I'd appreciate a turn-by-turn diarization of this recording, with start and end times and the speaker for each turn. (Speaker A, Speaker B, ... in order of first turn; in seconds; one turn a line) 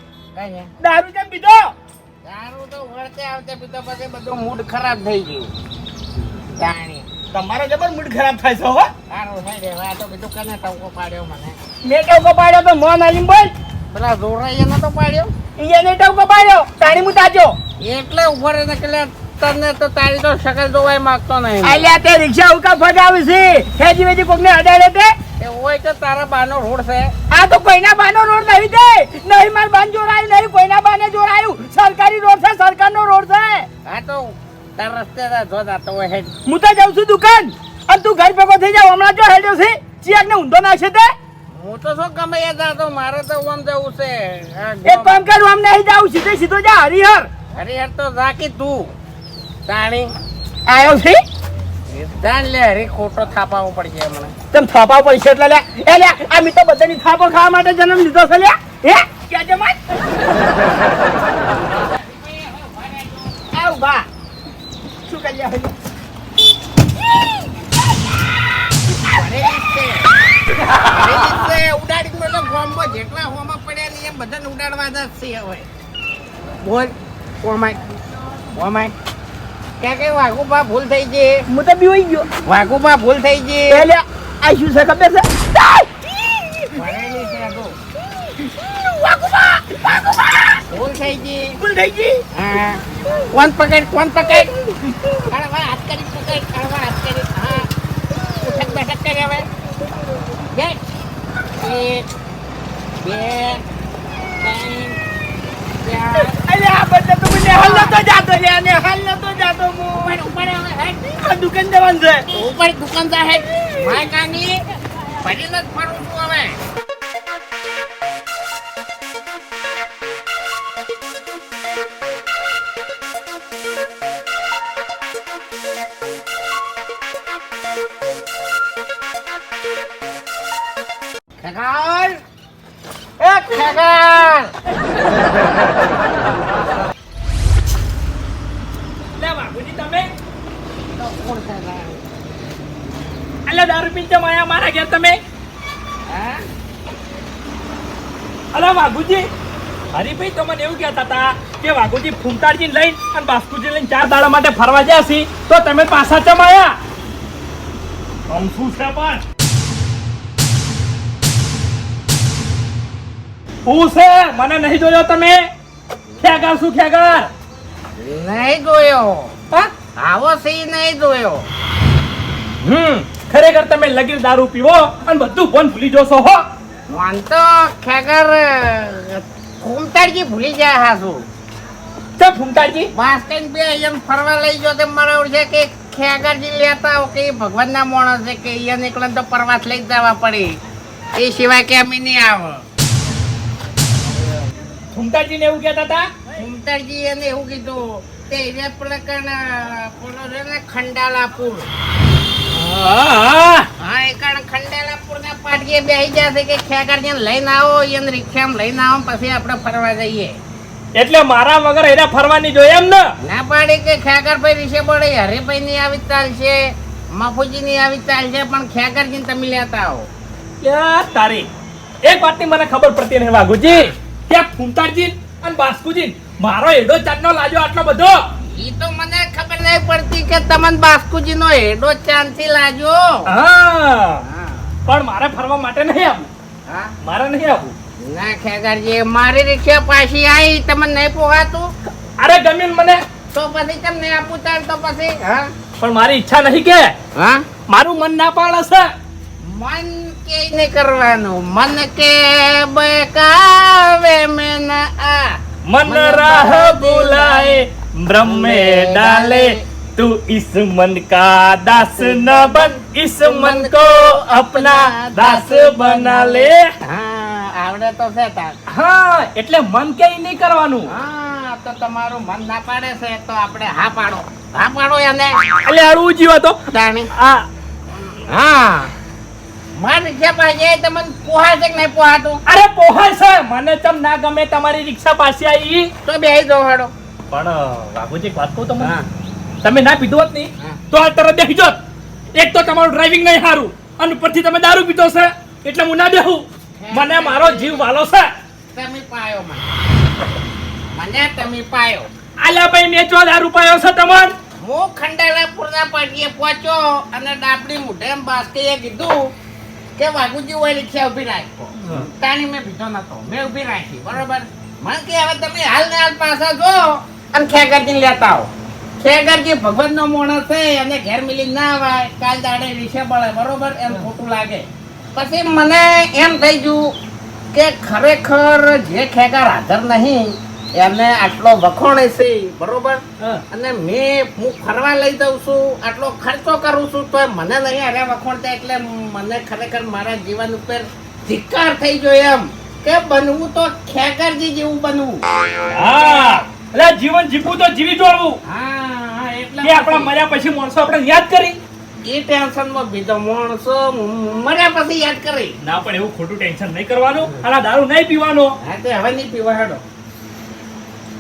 Speaker A: 0.3-0.7
Speaker B: 0.8-1.7
Speaker A: 2.2-5.5
Speaker A: 6.6-7.1
Speaker B: 7.3-8.9
Speaker A: 9.1-11.6
Speaker B: 11.8-13.5
Speaker A: 13.9-15.3
Speaker B: 15.6-17.6
Speaker A: 17.8-21.8
Speaker B: 21.6-25.2
Speaker A: 25.4-27.1
Speaker B: 27.3-33.7
Speaker A: 33.9-36.4
Speaker B: 36.5-41.1
Speaker A: 41.5-45.2
Speaker B: 44.9-47.3
Speaker A: 47.5-48.9
Speaker A: 49.7-50.1
Speaker B: 50.7-51.2
Speaker A: 52.0-54.3
Speaker B: 54.5-59.8
Speaker A: 61.9-63.5
Speaker B: 63.5-64.1
Speaker B: 65.1-65.7
Speaker A: 69.0-70.1
Speaker A: 70.8-75.7
Speaker A: 76.6-77.9
Speaker A: 78.5-78.9
Speaker A: 79.8-81.5
Speaker B: 81.5-82.3
Speaker A: 82.5-83.8
Speaker B: 83.7-85.9
Speaker A: 86.8-87.8
Speaker B: 88.6-90.6
Speaker A: 90.7-91.6
Speaker B: 91.6-92.2
Speaker A: 92.3-94.5
Speaker A: 95.3-97.7
Speaker A: 98.4-99.5
Speaker A: 100.5-100.8
Speaker A: 101.6-102.1
Speaker A: 103.0-103.7
Speaker A: 104.4-105.0
Speaker A: 105.8-106.4
Speaker B: 106.2-110.2
Speaker A: 107.5-108.0
Speaker A: 110.0-111.0
Speaker B: 111.1-112.3
Speaker A: 112.3-114.6
Speaker A: 115.2-116.6
Speaker A: 131.4-132.2
Speaker A: 133.2-134.5
Speaker C: 139.2-140.1
Speaker A: 140.9-142.1
Speaker C: 143.5-145.2
Speaker A: 146.1-146.5
Speaker C: 148.5-149.3
Speaker C: 149.9-156.8
Speaker C: 158.3-159.2
Speaker C: 163.7-165.5
Speaker C: 166.2-167.3
Speaker A: 168.0-169.3
Speaker A: 170.0-171.5
Speaker C: 172.6-176.4
Speaker A: 176.9-181.3
Speaker C: 182.2-182.9
Speaker A: 182.9-190.6
Speaker A: 191.2-192.6
Speaker C: 194.9-196.1
Speaker A: 196.4-201.7
Speaker C: 202.5-203.7
Speaker A: 203.8-210.4
Speaker C: 211.0-213.1
Speaker A: 213.2-220.1
Speaker C: 220.6-221.5
Speaker C: 222.0-228.2
Speaker A: 228.4-233.3
Speaker C: 233.3-234.2
Speaker A: 234.2-234.7
Speaker C: 234.9-236.3
Speaker A: 236.7-236.9
Speaker C: 237.0-237.7
Speaker A: 238.0-241.7
Speaker C: 242.2-243.0
Speaker A: 243.3-245.5
Speaker C: 245.8-246.9
Speaker A: 247.2-247.4
Speaker C: 247.7-248.9
Speaker A: 249.4-257.6
Speaker C: 255.7-266.7
Speaker A: 258.2-259.6
Speaker A: 261.8-268.6
Speaker C: 268.7-270.9
Speaker A: 270.9-275.4
Speaker C: 275.6-276.6
Speaker A: 276.7-277.1
Speaker C: 277.1-277.5
Speaker A: 278.3-278.9
Speaker A: 279.8-282.4
Speaker C: 282.5-285.9
Speaker A: 286.0-286.9
Speaker C: 287.3-288.9
Speaker A: 288.8-289.1
Speaker C: 289.6-291.8
Speaker C: 292.4-298.3
Speaker A: 296.8-297.9
Speaker A: 298.7-299.8
Speaker A: 300.9-302.1
Speaker C: 302.4-304.3
Speaker A: 304.6-309.3
Speaker A: 310.0-326.9
Speaker A: 327.5-346.4
Speaker C: 345.7-348.4
Speaker A: 348.4-350.1
Speaker C: 349.6-351.6
Speaker A: 352.0-355.6
Speaker C: 355.6-358.5
Speaker A: 358.6-359.8